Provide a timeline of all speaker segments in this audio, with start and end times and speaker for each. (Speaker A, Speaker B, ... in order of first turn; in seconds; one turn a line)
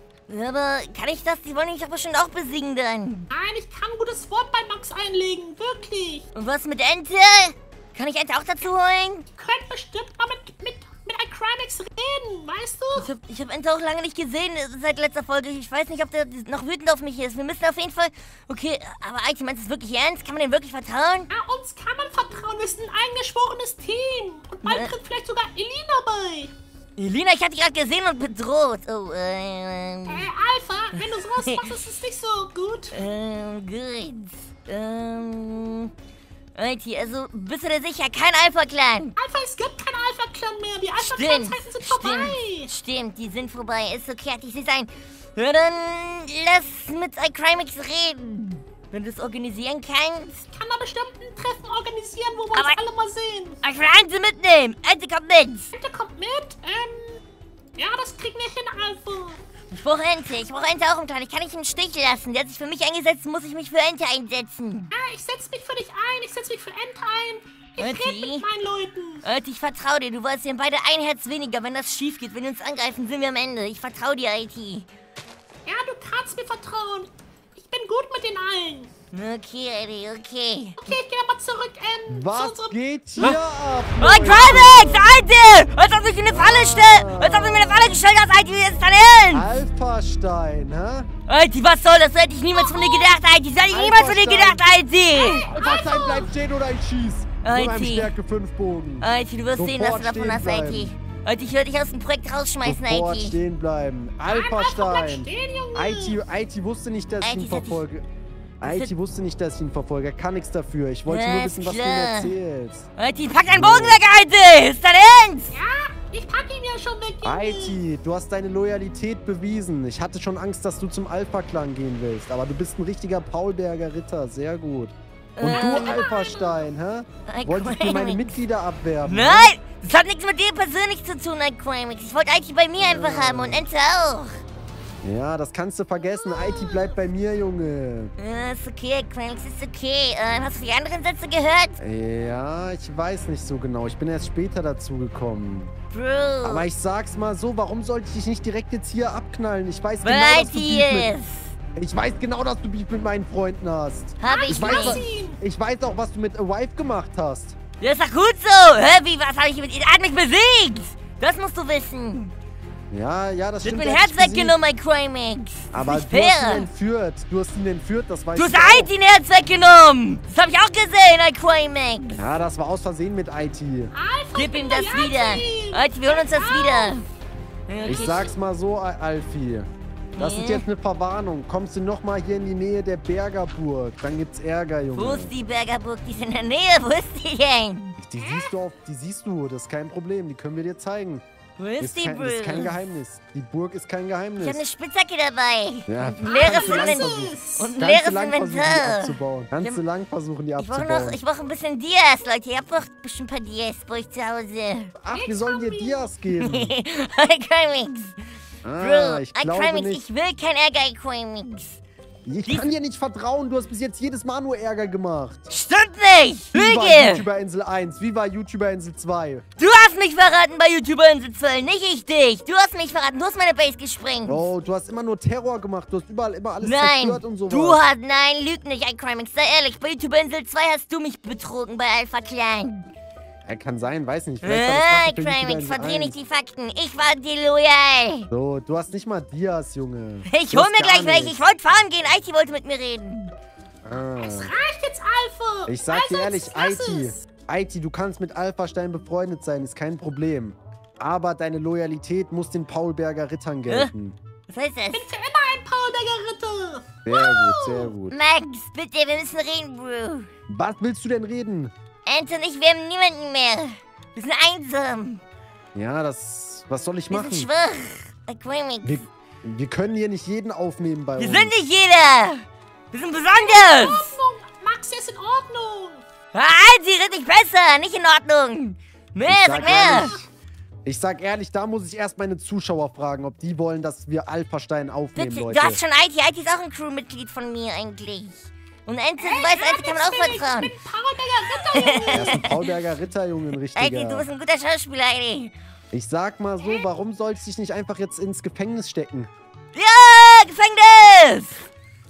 Speaker A: 0.3-3.3
Speaker B: 3.3-6.3
Speaker A: 6.3-9.3
Speaker B: 9.4-13.1
Speaker A: 12.9-21.3
Speaker B: 21.3-26.5
Speaker A: 24.6-24.9
Speaker A: 27.0-30.3
Speaker B: 30.1-32.9
Speaker A: 31.3-31.7
Speaker A: 32.9-35.9
Speaker A: 36.5-39.2
Speaker B: 39.2-42.7
Speaker A: 41.0-50.5
Speaker B: 50.5-53.6
Speaker A: 52.5-52.8
Speaker A: 53.6-55.7
Speaker B: 55.7-57.2
Speaker B: 57.8-59.4
Speaker A: 59.7-64.9
Speaker B: 64.9-69.2
Speaker A: 67.8-68.5
Speaker A: 69.2-74.9
Speaker B: 75.7-78.9
Speaker A: 79.1-80.8
Speaker B: 80.8-82.8
Speaker C: 82.1-85.2
Speaker A: 84.0-89.5
Speaker C: 86.3-88.0
Speaker C: 89.3-91.1
Speaker A: 91.3-95.5
Speaker B: 92.5-93.2
Speaker C: 93.7-94.6
Speaker B: 95.2-96.3
Speaker C: 95.5-100.9
Speaker A: 97.4-98.1
Speaker A: 99.0-103.4
Speaker C: 102.6-108.0
Speaker B: 104.3-106.2
Speaker A: 107.2-107.8
Speaker C: 108.6-112.9
Speaker A: 108.6-108.9
Speaker A: 111.1-112.3
Speaker A: 113.0-115.6
Speaker C: 113.5-114.0
Speaker B: 115.5-117.8
Speaker C: 117.2-129.5
Speaker A: 125.4-126.0
Speaker B: 125.4-126.6
Speaker A: 127.3-128.4
Speaker A: 129.0-134.4
Speaker C: 132.8-133.6
Speaker C: 135.0-138.1
Speaker B: 136.2-136.9
Speaker A: 138.2-141.8
Speaker C: 141.8-145.7
Speaker A: 145.9-146.7
Speaker C: 146.4-151.1
Speaker A: 150.0-151.6
Speaker C: 151.8-157.6
Speaker A: 154.2-155.0
Speaker B: 154.2-155.4
Speaker A: 157.8-162.3
Speaker C: 162.9-164.6
Speaker A: 163.6-166.7
Speaker C: 165.7-168.9
Speaker A: 168.3-172.3
Speaker C: 172.2-173.9
Speaker B: 173.9-177.1
Speaker A: 174.3-177.1
Speaker A: 177.7-178.3
Speaker C: 177.8-185.3
Speaker A: 180.2-180.7
Speaker A: 184.9-188.0
Speaker C: 188.0-191.2
Speaker B: 188.2-188.6
Speaker A: 191.6-192.8
Speaker C: 191.8-194.6
Speaker A: 194.4-199.8
Speaker C: 195.9-201.2
Speaker B: 196.2-197.7
Speaker A: 200.6-204.9
Speaker C: 205.0-206.8
Speaker B: 205.1-206.1
Speaker A: 206.4-208.2
Speaker C: 208.6-210.0
Speaker A: 208.8-211.8
Speaker C: 212.2-215.4
Speaker A: 215.5-217.3
Speaker C: 216.5-219.4
Speaker A: 219.6-224.5
Speaker C: 224.3-227.8
Speaker A: 226.6-232.9
Speaker C: 233.5-236.2
Speaker A: 234.4-238.3
Speaker C: 238.3-241.4
Speaker A: 240.3-243.3
Speaker C: 243.8-244.5
Speaker B: 244.2-247.2
Speaker C: 245.7-254.2
Speaker A: 254.5-255.1
Speaker B: 254.9-257.9
Speaker C: 257.1-258.1
Speaker A: 258.1-260.3
Speaker C: 260.5-261.7
Speaker A: 262.1-265.2
Speaker C: 265.8-267.5
Speaker A: 267.1-269.1
Speaker C: 268.8-271.6
Speaker A: 271.2-274.1
Speaker B: 273.3-276.0
Speaker A: 276.3-280.2
Speaker C: 279.3-280.2
Speaker B: 279.6-280.2
Speaker C: 280.9-285.8
Speaker A: 285.2-290.7
Speaker B: 289.2-292.5
Speaker A: 291.6-292.5
Speaker C: 292.1-294.3
Speaker A: 293.8-295.5
Speaker C: 295.9-299.3
Speaker A: 299.7-301.7